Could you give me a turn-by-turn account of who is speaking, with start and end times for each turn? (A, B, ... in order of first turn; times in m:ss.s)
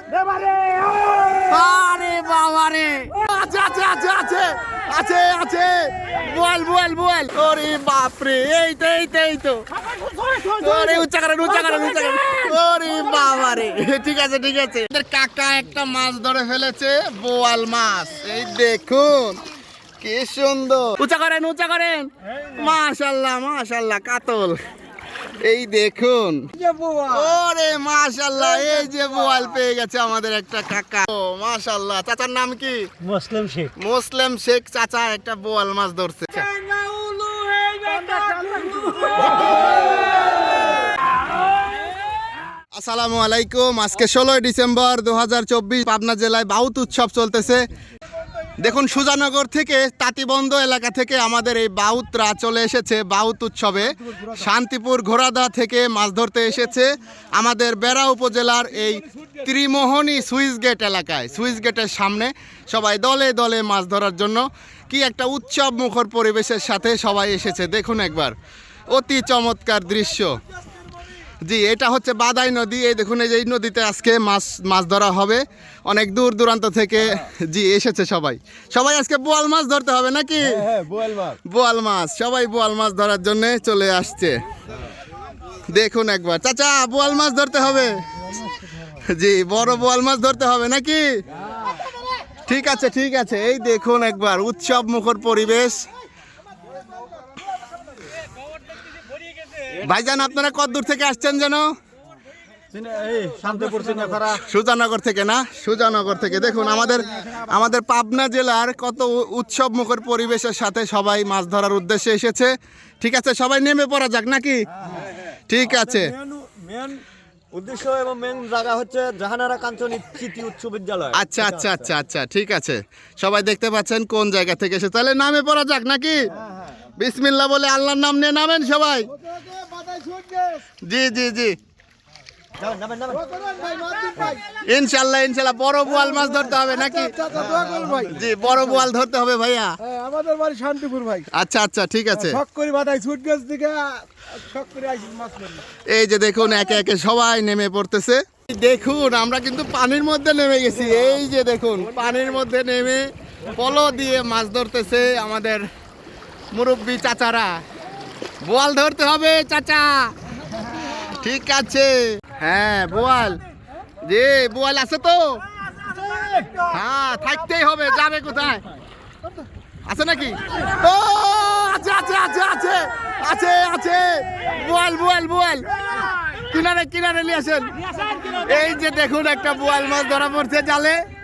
0:01.4-0:09.7 A
0:10.5-0:19.4 A
0:20.0-0:24.6 A
0:25.4-0:26.4 A
0:26.5-0:27.3 B
0:27.0-0:32.8 A
0:33.2-0:33.5 C
0:33.8-0:36.5 A
0:37.2-0:38.3 C
0:38.0-0:39.0 B
0:42.7-0:47.6 A
0:48.6-1:08.4 A
1:08.9-1:10.4 A
1:11.4-1:20.7 A
1:20.6-1:21.3 C
1:21.3-1:24.4 A
1:25.7-1:31.2 A
1:32.4-1:35.8 A
1:39.7-1:41.7 A
1:42.7-1:44.4 C
1:44.4-1:54.6 A
1:55.5-1:56.1 A
1:55.9-2:01.9 C
2:01.1-2:06.2 A
2:07.0-2:09.1 A
2:09.4-2:10.6 B
2:10.8-2:11.5 A
2:12.6-2:13.2 C
2:13.2-2:14.4 B
2:14.5-2:17.2 A
2:15.9-2:18.8 B
2:17.4-2:17.8 C
2:18.1-2:19.7 A
2:19.8-2:21.3 B
2:21.3-2:22.4 A
2:22.1-2:25.6 B
2:25.9-2:35.7 A
2:36.5-2:37.6 A
2:38.4-2:40.1 A
2:41.0-2:43.4 A
2:44.0-2:45.4 A
2:46.7-2:48.6 A
2:49.9-2:55.7 A
2:56.5-3:01.0 A